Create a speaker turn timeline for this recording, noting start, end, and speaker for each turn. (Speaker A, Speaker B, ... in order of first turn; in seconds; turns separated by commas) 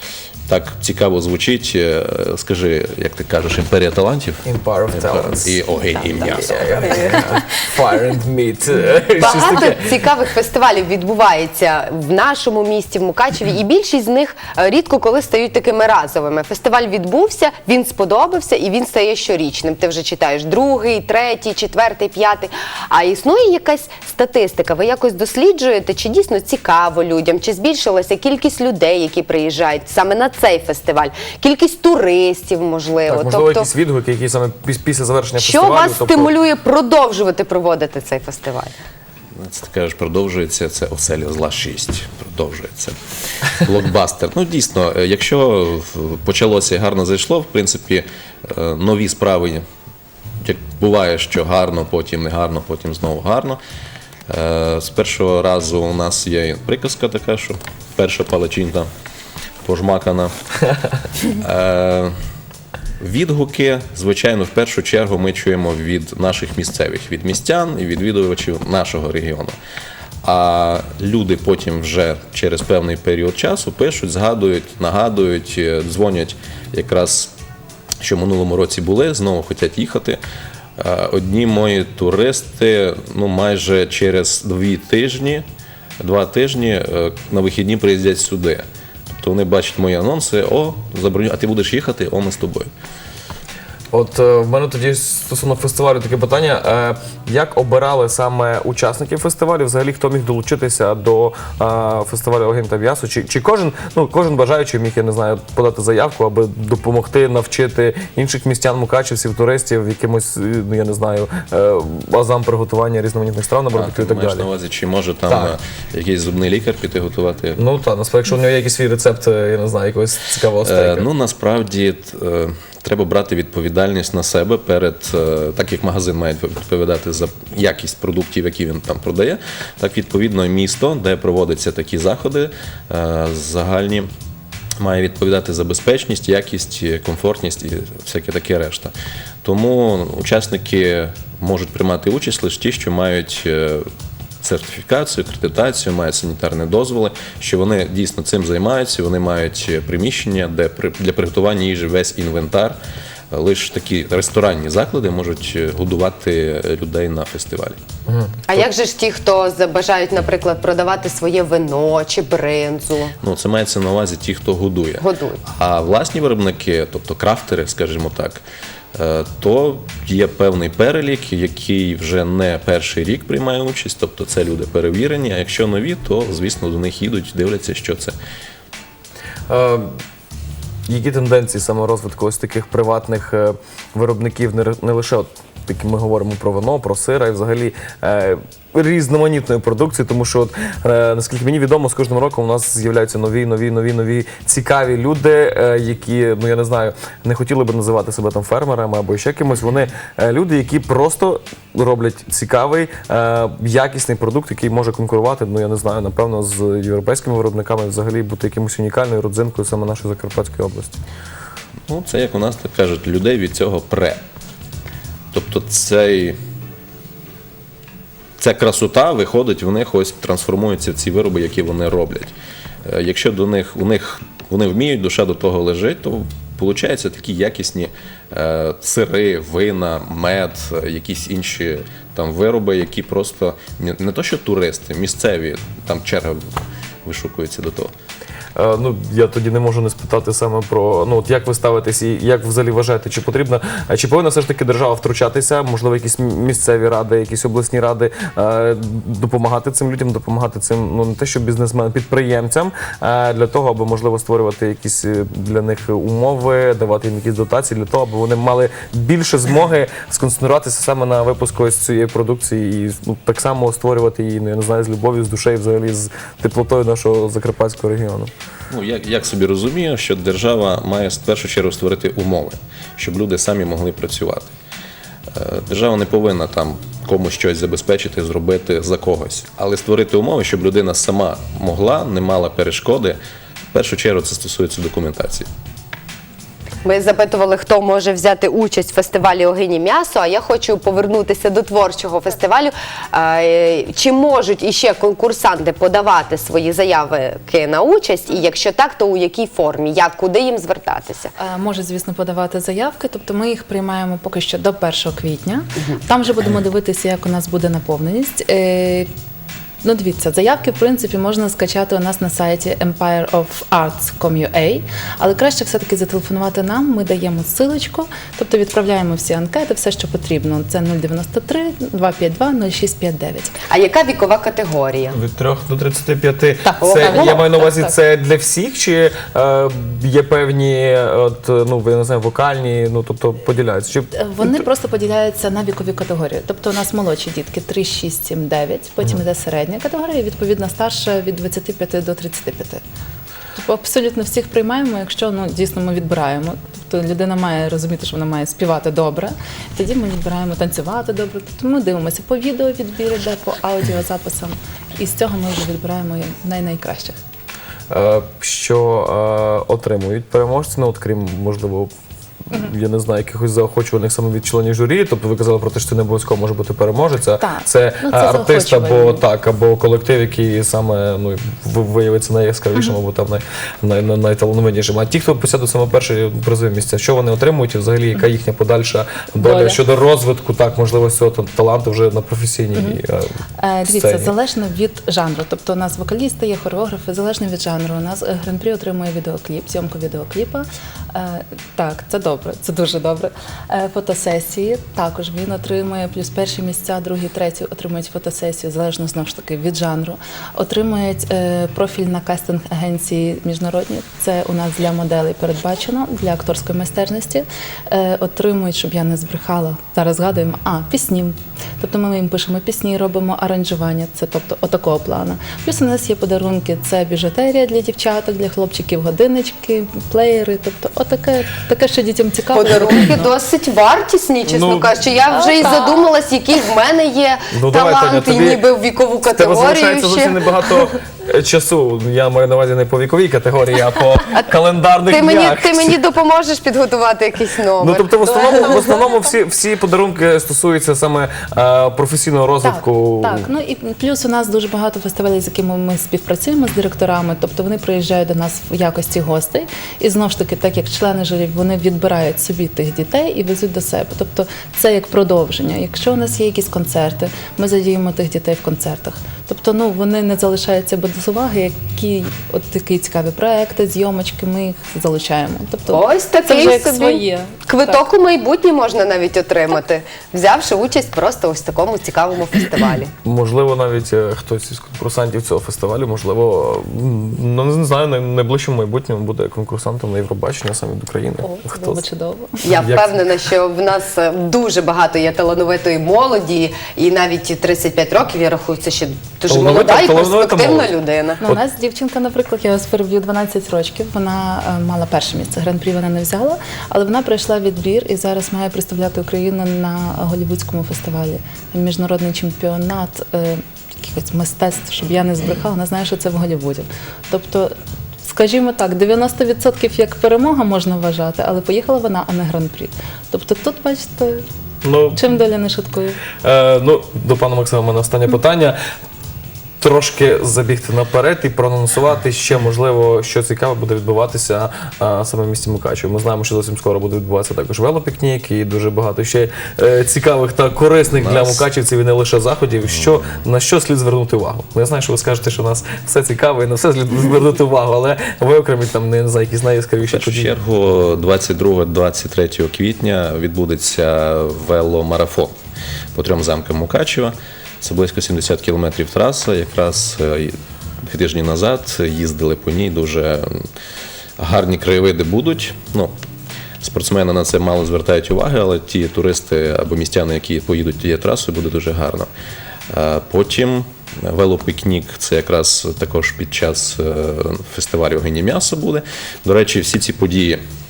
Speaker A: 0.5-6.8, Speaker B: 4.4-9.9, Speaker C: 6.9-7.2, Speaker C: 9.2-33.7, Speaker B: 33.1-36.3, Speaker C: 35.4-38.8, Speaker A: 39.4-43.0, Speaker A: 43.6-49.6, Speaker A: 50.4-53.6, Speaker A: 54.3-58.9, Speaker A: 59.6-60.3, Speaker A: 61.4-62.1, Speaker A: 63.0-69.6, Speaker A: 70.2-77.3, Speaker A: 78.0-80.2, Speaker A: 80.8-85.5, Speaker A: 86.0-92.7, Speaker B: 93.9-114.5, Speaker A: 113.7-117.6, Speaker B: 115.3-115.6, Speaker B: 117.6-121.1, Speaker A: 120.6-134.1, Speaker A: 134.8-143.8, Speaker A: 144.4-152.8, Speaker A: 153.3-157.8, Speaker B: 158.1-158.4, Speaker C: 158.5-163.1, Speaker A: 163.2-168.4, Speaker C: 165.0-165.4, Speaker A: 168.9-178.2, Speaker B: 179.5-180.0, Speaker B: 180.9-211.0, Speaker A: 211.9-214.2, Speaker A: 215.3-216.4, Speaker A: 218.4-222.3, Speaker A: 222.8-236.4, Speaker A: 237.1-237.9, Speaker B: 238.6-268.3, Speaker A: 268.7-274.5, Speaker A: 275.3-283.2, Speaker A: 283.7-285.5, Speaker C: 286.8-301.3, Speaker D: 301.4-309.1, Speaker D: 309.8-323.5, Speaker C: 323.7-325.1, Speaker B: 325.1-334.1, Speaker D: 326.6-327.9, Speaker C: 326.8-327.7, Speaker D: 334.1-342.8, Speaker D: 343.6-357.2, Speaker B: 357.9-361.9, Speaker B: 362.5-383.3, Speaker D: 367.4-369.2, Speaker D: 379.4-379.8, Speaker D: 383.6-423.3, Speaker B: 383.8-384.3, Speaker C: 422.5-430.9, Speaker B: 424.5-424.9, Speaker D: 425.3-426.1, Speaker B: 427.5-428.7, Speaker B: 429.2-436.0, Speaker C: 435.1-438.1, Speaker B: 437.8-443.5, Speaker D: 438.2-439.2, Speaker D: 442.6-468.1, Speaker C: 465.9-473.1, Speaker B: 473.2-482.0, Speaker D: 481.4-482.6, Speaker C: 482.6-491.4, Speaker B: 482.7-483.1, Speaker B: 489.5-490.9, Speaker D: 491.4-507.7, Speaker D: 508.2-514.4, Speaker B: 514.8-515.2, Speaker D: 515.1-516.2, Speaker B: 516.4-518.8, Speaker B: 519.8-540.5, Speaker A: 531.1-531.6, Speaker A: 540.1-545.5, Speaker A: 546.1-553.6, Speaker A: 554.4-556.1, Speaker A: 556.8-562.3, Speaker A: 562.9-570.6